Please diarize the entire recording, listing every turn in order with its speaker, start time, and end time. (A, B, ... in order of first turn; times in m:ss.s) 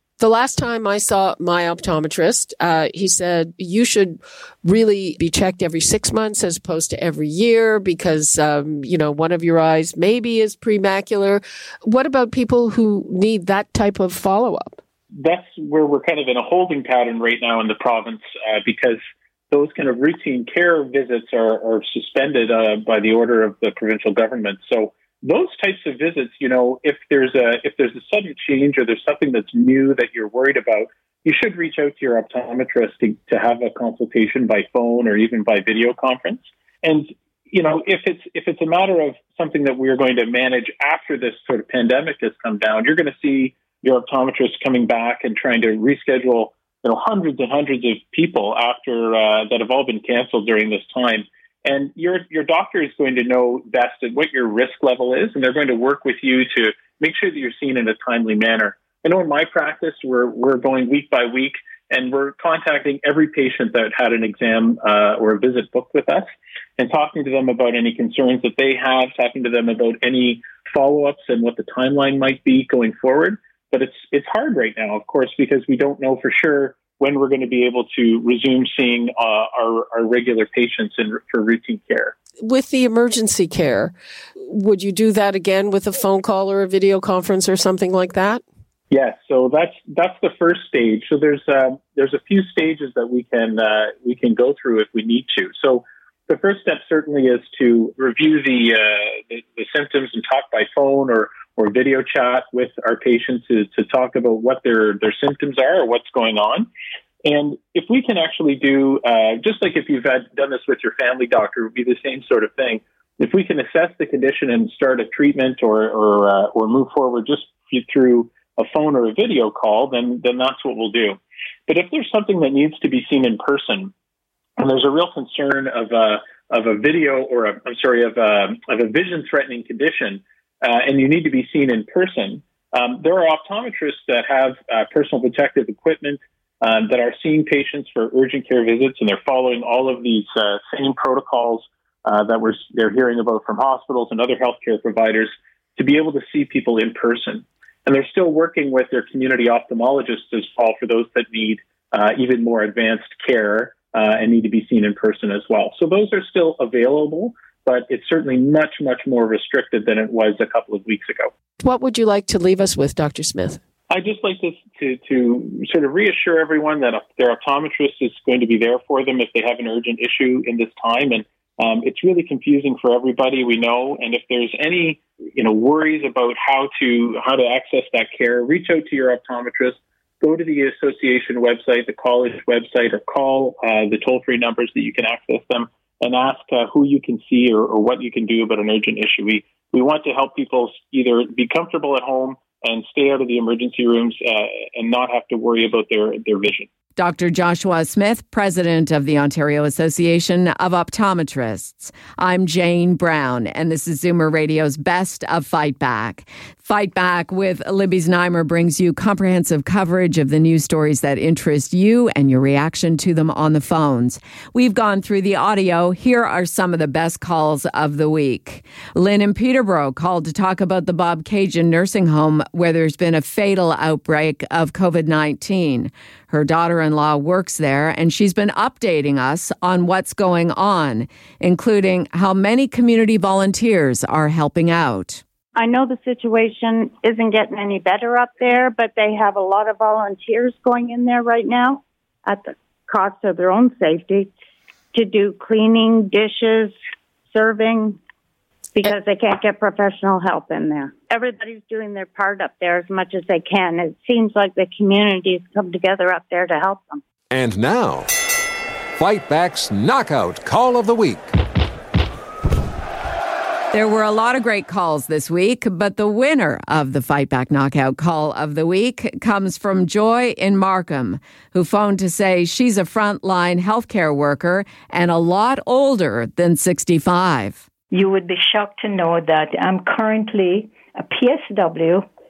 0:00.2-0:14.8 A
0:15.1-1:22.2 B
1:22.4-1:28.4 A
1:28.9-1:46.7 B
1:47.2-2:03.9 B
2:04.6-2:41.3 B
2:41.6-2:43.6 A
2:43.9-3:16.7 B
3:17.0-3:55.2 C
3:55.6-4:04.3 D
4:04.9-4:06.8 D
4:07.3-4:08.0 D
4:08.8-4:17.0 D
4:17.3-4:18.1 E
4:19.0-4:21.4 E
4:23.7-4:37.6 C
4:37.9-4:42.1 F